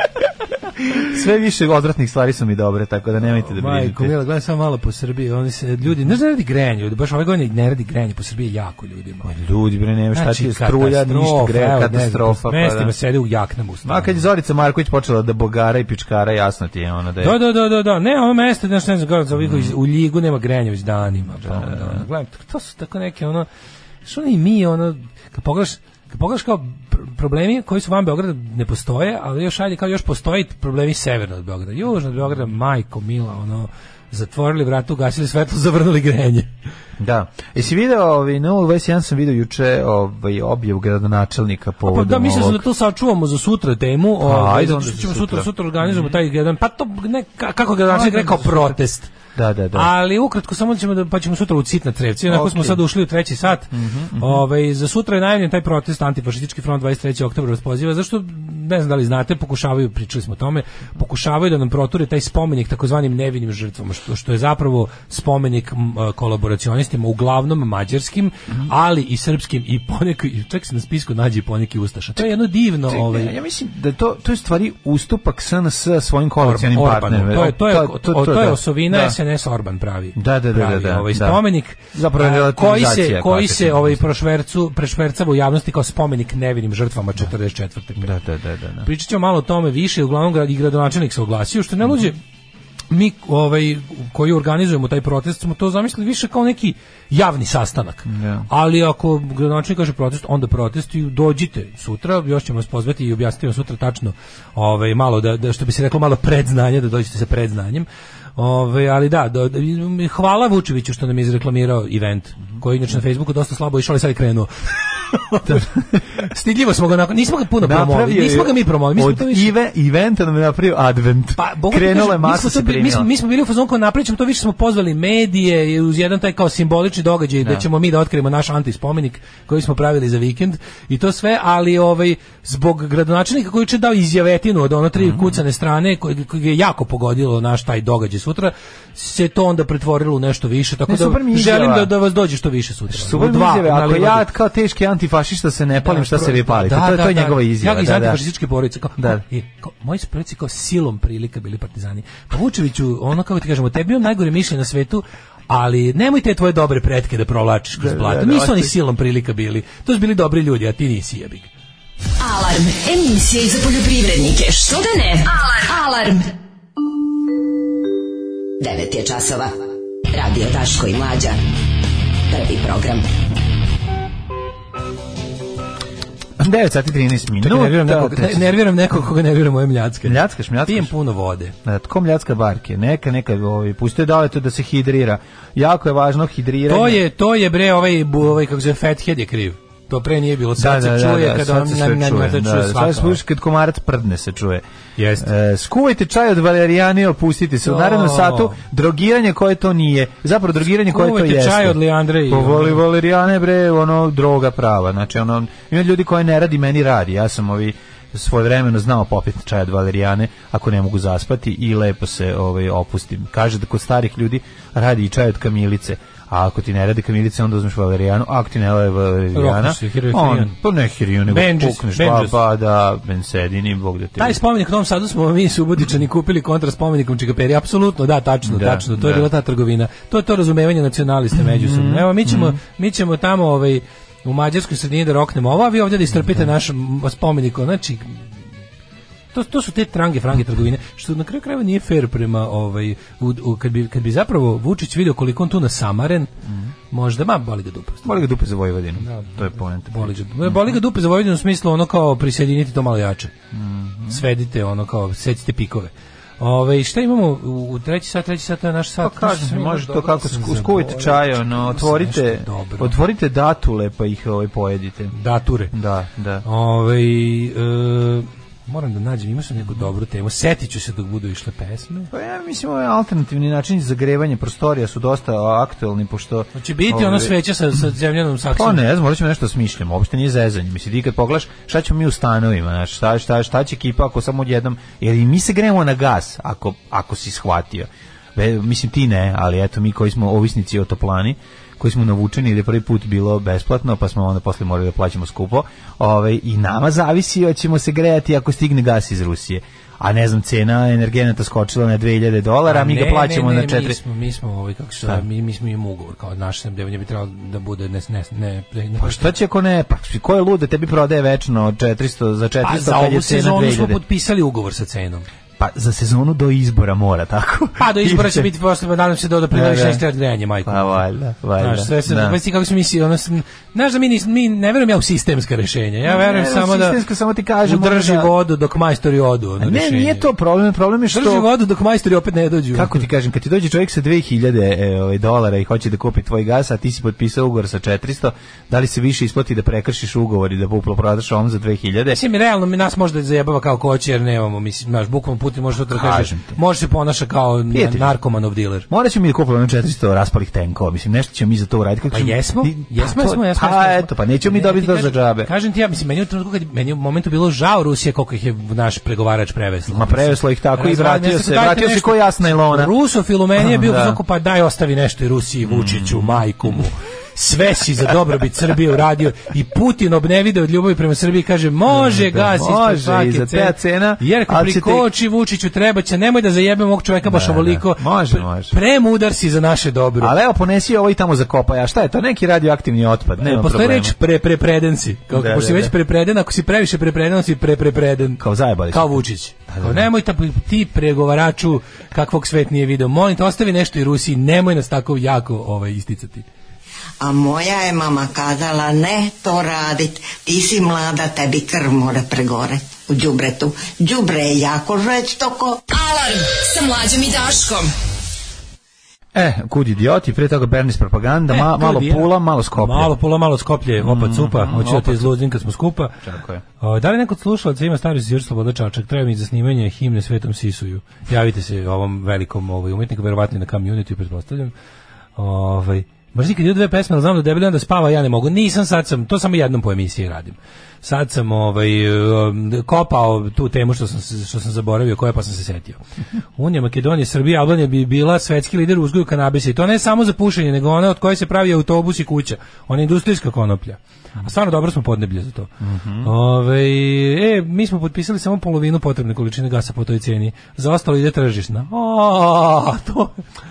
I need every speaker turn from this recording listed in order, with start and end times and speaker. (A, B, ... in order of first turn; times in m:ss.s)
0:00.8-0:04.2 A
0:03.3-0:09.3 B
0:09.2-0:12.9 A
0:10.1-0:14.2 B
0:13.8-0:17.4 A
0:17.2-0:23.5 B
0:19.4-0:19.7 A
0:21.4-0:22.0 A
0:24.0-0:36.5 B
0:37.0-0:42.6 A
0:41.8-0:49.1 B
0:44.2-0:46.1 A
0:47.9-0:48.8 A
0:49.4-0:49.9 A
0:49.7-1:13.3 B
0:52.3-0:52.8 A
0:53.7-0:54.4 A
1:12.9-1:19.2 A
1:16.4-1:28.1 B
1:20.2-1:24.0 A
1:28.0-1:28.9 A
1:28.8-1:32.2 B
1:32.9-1:59.5 B
1:38.1-1:38.5 A
1:57.6-2:03.1 A
2:01.4-2:24.3 B
2:15.0-2:15.4 A
2:20.9-2:21.9 A
2:22.9-2:28.2 A
2:25.8-2:41.5 B
2:37.8-2:38.8 A
2:42.2-2:46.3 C
2:48.6-2:49.6 D
2:50.1-2:51.4 D
2:52.3-2:53.1 D
2:56.4-2:58.5 A
2:57.4-3:01.5 B
3:00.0-3:00.9 A
3:01.6-3:07.0 A
3:06.7-3:13.2 B
3:10.6-3:14.6 A
3:15.0-3:15.3 B
3:15.2-3:44.4 A
3:17.6-3:18.6 B
3:20.8-3:22.8 B
3:39.3-3:40.5 B
3:41.3-3:42.4 B
3:44.2-3:58.2 B
3:48.5-3:49.3 A
3:51.4-3:52.6 A
3:59.3-4:06.3 B
4:06.9-4:08.2 B
4:08.0-4:10.7 A
4:09.0-4:13.3 B
4:13.5-4:14.2 A
4:14.1-4:23.0 B
4:19.0-4:25.2 A
4:25.1-4:25.7 B
4:25.7-4:26.4 A
4:26.4-4:32.1 B
4:32.1-4:37.3 A
4:36.6-4:38.8 B
4:38.5-5:04.0 A
5:02.6-5:09.3 B
5:09.0-5:14.0 A
5:12.6-5:15.3 B
5:15.6-5:18.5 A
5:17.8-5:21.0 B
5:19.5-5:20.0 A
5:20.6-5:22.4 A
5:21.6-5:27.0 B
5:26.0-5:28.3 A
5:27.6-5:30.3 B
5:29.6-5:31.5 A
5:31.1-5:33.0 B
5:32.7-5:42.2 A
5:42.1-5:48.9 B
5:45.9-5:46.6 A
5:47.7-5:48.1 A
5:48.9-5:55.5 A
5:52.1-6:20.4 B
5:59.9-6:02.9 A
6:03.6-6:04.2 A
6:05.6-6:06.4 A
6:11.9-6:15.1 A
6:17.2-6:18.7 A
6:20.2-6:24.2 A
6:23.4-6:36.5 B
6:25.3-6:25.9 A
6:28.4-6:30.1 A
6:37.2-6:45.8 E
6:45.9-6:47.9 C
6:49.4-6:53.1 A
6:51.5-6:56.2 B
6:54.0-6:55.3 A
6:56.2-6:56.6 A
6:56.8-7:04.7 B
7:05.4-7:16.0 B
7:16.6-7:33.4 B
7:25.8-7:26.3 A